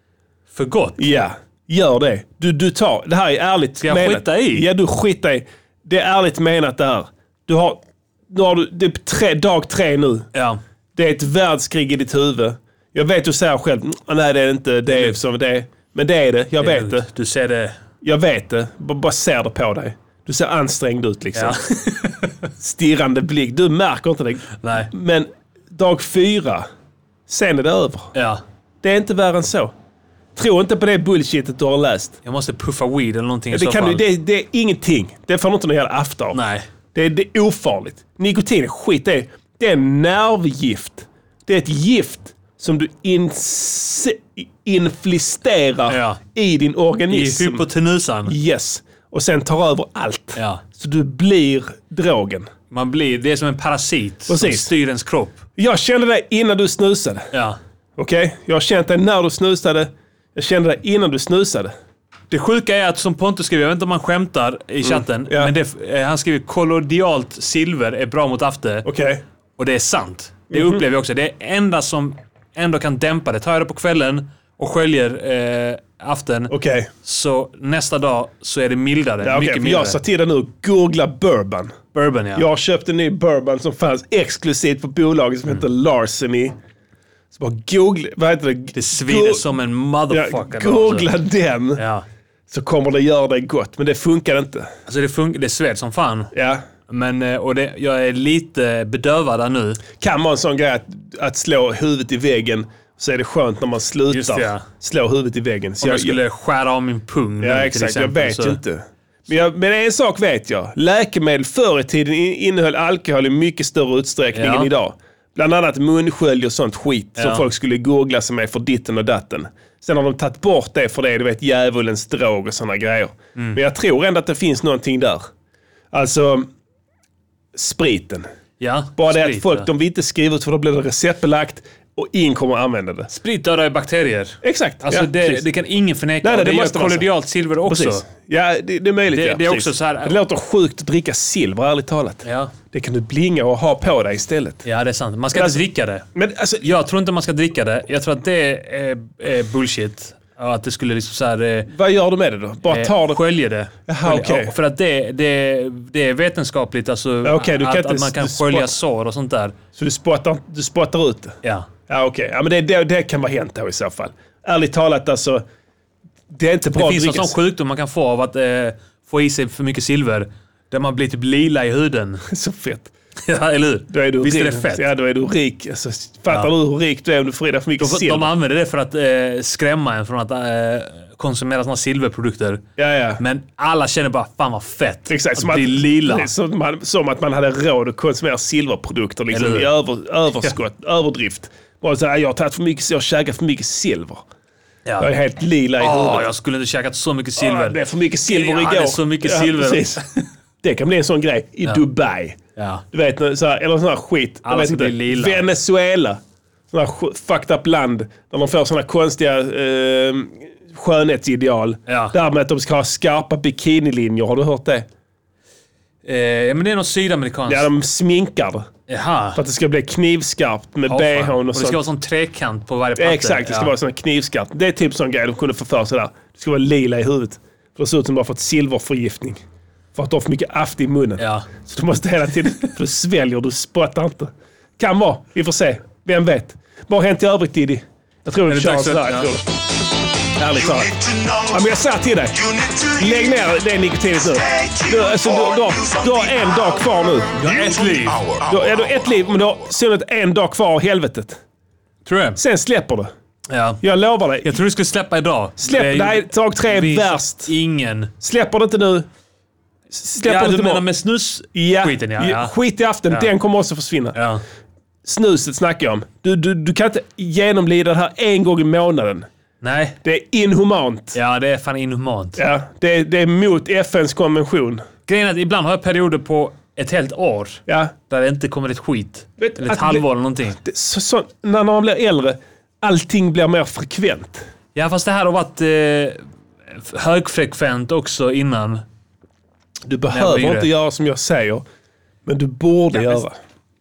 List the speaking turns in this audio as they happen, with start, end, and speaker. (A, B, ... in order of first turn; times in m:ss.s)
0:00.5-0:01.1 A
0:01.0-0:10.3 B
0:03.8-0:04.7 A
0:10.3-0:10.6 A
0:11.0-0:17.1 B
0:14.9-0:15.2 A
0:16.6-0:17.8 A
0:18.0-0:21.6 B
0:21.4-0:22.5 A
0:22.6-0:26.7 B
0:24.6-0:24.9 A
0:27.3-0:28.1 B
0:28.1-0:28.4 A
0:28.8-0:29.7 B
0:30.4-0:32.2 B
0:32.2-0:34.0 A
0:33.5-0:36.4 B
0:36.3-0:36.7 A
0:36.9-0:47.7 B
0:45.9-0:46.2 A
0:47.1-0:48.4 A
0:48.3-0:52.5 B
0:50.4-0:50.6 A
0:52.7-0:55.4 A
0:54.3-0:54.7 B
0:55.6-0:57.3 B
0:57.3-0:57.6 A
0:58.0-1:01.7 B
1:02.3-1:08.9 A
1:04.8-1:05.5 B
1:08.8-1:09.2 B
1:09.6-1:20.0 A
1:10.5-1:10.8 B
1:16.5-1:16.9 B
1:19.2-1:21.8 B
1:21.9-1:22.5 A
1:22.3-1:26.6 B
1:27.3-1:29.4 B
1:28.7-1:31.1 A
1:30.1-1:31.8 B
1:31.8-1:32.0 A
1:32.5-1:34.7 B
1:34.9-1:36.3 A
1:36.3-1:36.6 B
1:36.9-1:39.8 A
1:40.0-1:46.2 B
1:44.1-1:44.6 A
1:45.8-1:48.6 A
1:47.4-2:05.3 B
1:54.3-1:54.7 A
1:57.2-1:57.4 A
2:05.9-2:06.5 B
2:07.6-2:08.3 B
2:08.6-2:09.7 A
2:09.0-2:13.1 B
2:13.1-2:18.0 A
2:14.4-2:15.4 B
2:16.2-2:17.1 B
2:17.7-2:24.7 B
2:19.1-2:20.2 A
2:22.2-2:22.5 A
2:24.6-2:26.0 A
2:25.3-2:25.6 B
2:26.1-2:26.7 B
2:26.6-2:31.7 A
2:31.7-2:33.2 B
2:32.7-2:39.6 A
2:33.9-2:34.5 B
2:37.2-2:38.7 B
2:39.8-2:41.4 B
2:41.4-2:41.7 A
2:41.9-2:45.4 B
2:46.3-2:47.3 B
2:46.8-2:52.2 A
2:52.3-2:52.9 B
2:53.3-2:54.8 A
2:53.9-2:58.3 B
2:57.8-3:02.6 A
3:02.8-3:03.2 B
3:03.2-3:06.3 A
3:05.1-3:14.2 B
3:09.3-3:09.7 A
3:15.0-3:16.3 B
3:15.8-3:20.2 A
3:17.4-3:20.0 B
3:20.6-3:22.4 B
3:22.6-3:22.8 A
3:22.9-3:26.2 B
3:24.4-3:25.4 A
3:26.7-3:34.9 B
3:31.9-3:32.2 A
3:36.0-3:37.7 A
3:37.5-3:38.7 B
3:38.9-3:39.4 A
3:39.3-3:41.8 B
3:40.9-3:43.7 A
3:43.0-3:49.4 B
3:49.9-3:59.4 B
3:51.2-3:51.5 A
3:58.5-3:59.4 A
4:00.4-4:07.4 B
4:07.4-4:08.4 A
4:08.4-4:11.4 B
4:12.1-4:12.4 A
4:12.4-4:13.1 B
4:13.5-4:13.8 A
4:13.8-4:14.6 B
4:14.4-4:18.1 A
4:15.6-4:17.5 B
4:18.2-4:19.1 B
4:19.9-4:20.8 B
4:20.2-4:22.6 A
4:21.6-4:24.2 B
4:24.2-4:24.4 A
4:25.0-4:29.3 B
4:29.6-4:30.0 A
4:30.0-4:31.2 B
4:31.1-4:32.4 A
4:32.4-4:34.8 B
4:35.1-4:40.6 A
4:37.7-4:37.9 B
4:39.4-4:40.0 B
4:40.6-4:44.4 B
4:44.8-4:46.2 A
4:46.7-4:48.8 A
4:49.8-4:51.6 B
4:50.1-4:50.7 A
4:52.3-4:53.3 B
4:52.9-4:53.2 A